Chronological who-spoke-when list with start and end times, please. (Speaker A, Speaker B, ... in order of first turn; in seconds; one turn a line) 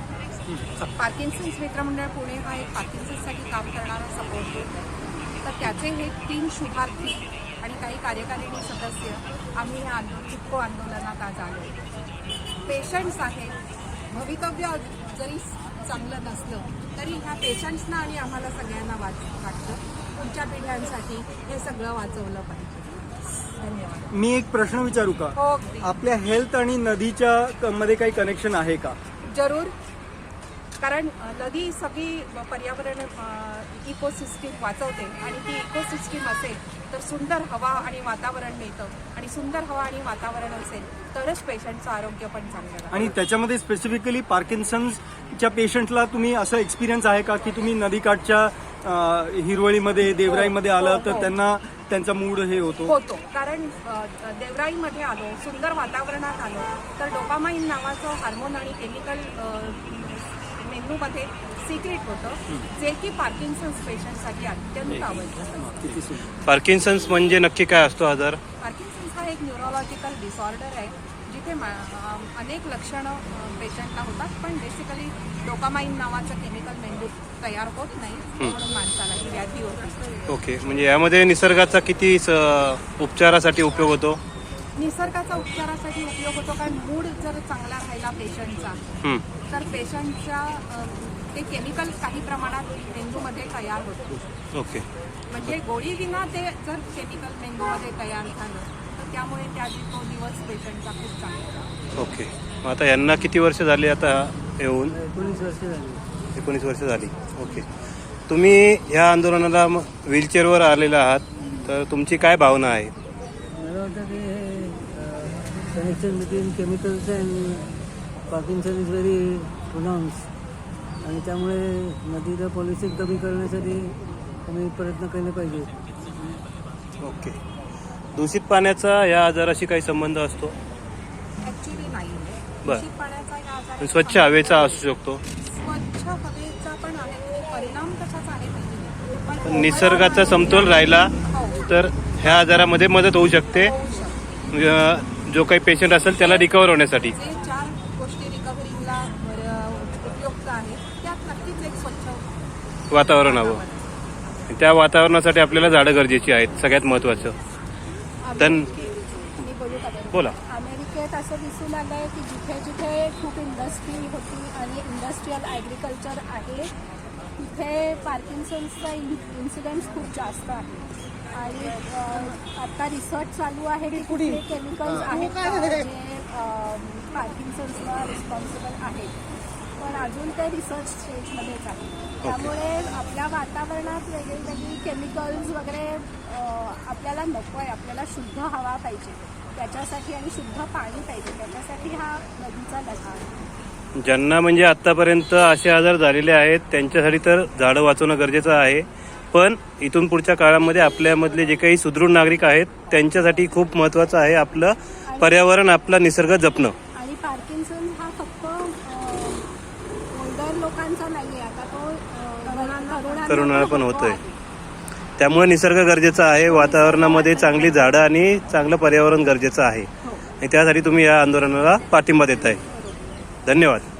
Speaker A: 0.8-4.9
Speaker A: 5.4-11.8
Speaker A: 12.7-13.6
Speaker A: 14.1-24.1
Speaker B: 24.1-29.0
Speaker A: 25.4-25.9
Speaker A: 29.2-29.8
Speaker A: 30.8-43.1
Speaker B: 42.9-53.0
Speaker A: 52.9-66.0
Speaker B: 65.6-66.3
Speaker C: 66.5-68.4
Speaker A: 68.6-80.3
Speaker C: 80.3-84.2
Speaker A: 84.8-88.8
Speaker A: 89.5-94.2
Speaker C: 94.5-94.9
Speaker A: 95.3-101.7
Speaker C: 102.0-105.0
Speaker D: 104.9-106.1
Speaker C: 106.3-107.7
Speaker C: 108.3-112.9
Speaker D: 113.5-120.3
Speaker D: 121.0-125.7
Speaker C: 127.0-127.4
Speaker C: 128.2-130.6
Speaker A: 131.4-134.8
Speaker C: 133.8-135.2
Speaker A: 135.4-141.6
Speaker C: 139.4-143.7
Speaker A: 143.5-144.2
Speaker C: 144.5-147.1
Speaker A: 146.1-152.3
Speaker C: 152.9-153.6
Speaker A: 153.1-154.3
Speaker C: 154.5-157.4
Speaker E: 158.2-166.7
Speaker C: 158.4-158.7
Speaker E: 167.4-170.8
Speaker E: 171.3-179.2
Speaker E: 179.8-193.4
Speaker C: 182.2-182.5
Speaker C: 194.0-206.8
Speaker E: 205.1-205.4
Speaker E: 206.9-209.5
Speaker E: 210.1-214.3
Speaker A: 212.4-213.4
Speaker C: 213.3-214.2
Speaker C: 215.2-222.6
Speaker A: 216.5-217.5
Speaker E: 216.5-217.8
Speaker C: 223.5-223.9